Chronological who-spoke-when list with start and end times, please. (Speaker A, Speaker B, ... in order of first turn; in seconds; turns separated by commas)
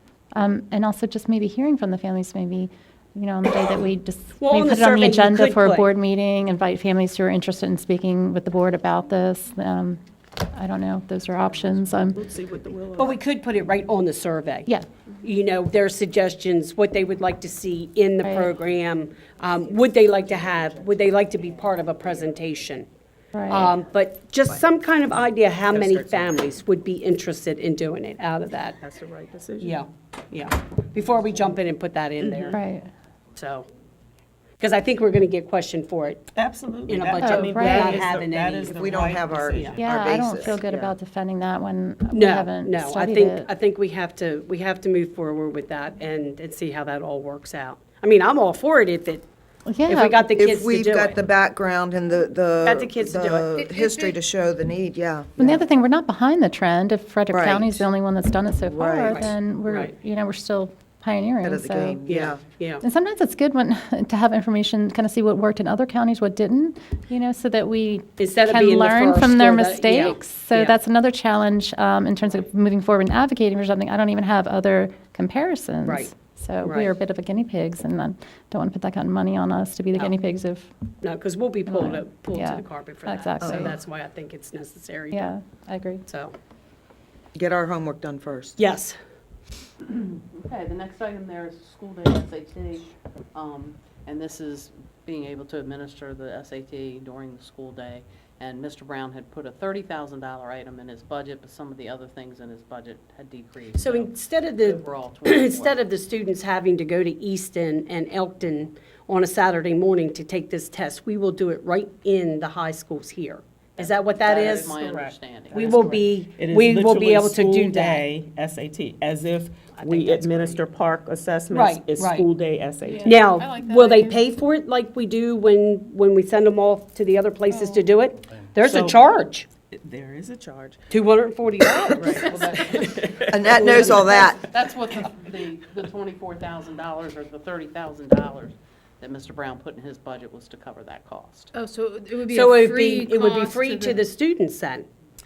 Speaker A: 0.3-10.0, Speaker B: 4.4-5.9, Speaker A: 10.5-12.2, Speaker C: 12.0-13.2, Speaker B: 13.0-14.7, Speaker B: 15.2-22.9, Speaker A: 18.2-18.6, Speaker A: 23.3-23.7, Speaker B: 23.5-28.8, Speaker C: 25.7-26.4, Speaker C: 28.8-29.8, Speaker B: 29.6-32.6, Speaker A: 32.5-32.9, Speaker B: 33.4-33.7, Speaker B: 34.6-36.3, Speaker C: 36.3-39.8, Speaker B: 36.9-39.8, Speaker A: 37.2-38.0, Speaker D: 38.7-41.0, Speaker A: 39.8-43.5, Speaker B: 42.1-49.3, Speaker A: 49.7-50.3, Speaker B: 49.9-51.2, Speaker D: 50.4-55.6, Speaker B: 52.6-53.5, Speaker E: 53.6-54.2, Speaker A: 55.4-62.0, Speaker D: 57.3-57.9, Speaker D: 58.6-59.3, Speaker B: 59.0-59.9, Speaker D: 61.4-62.4, Speaker B: 62.0-62.8, Speaker A: 62.8-80.7, Speaker B: 68.2-70.8, Speaker B: 75.8-76.9, Speaker B: 81.0-85.3, Speaker A: 81.7-83.8, Speaker D: 83.4-83.7, Speaker A: 85.1-86.0, Speaker B: 86.1-86.3, Speaker D: 87.3-88.6, Speaker B: 88.6-89.0, Speaker F: 89.8-105.8, Speaker B: 103.8-118.0, Speaker F: 113.8-116.1, Speaker C: 114.8-123.2, Speaker B: 119.8-120.6, Speaker B: 121.5-122.3, Speaker E: 122.8-124.2, Speaker B: 123.0-129.5, Speaker C: 128.6-129.0, Speaker C: 129.7-130.9, Speaker B: 130.9-132.4, Speaker F: 132.1-141.5, Speaker C: 132.8-133.5, Speaker D: 133.3-134.4, Speaker B: 133.5-134.2, Speaker E: 141.5-144.0, Speaker B: 142.3-144.9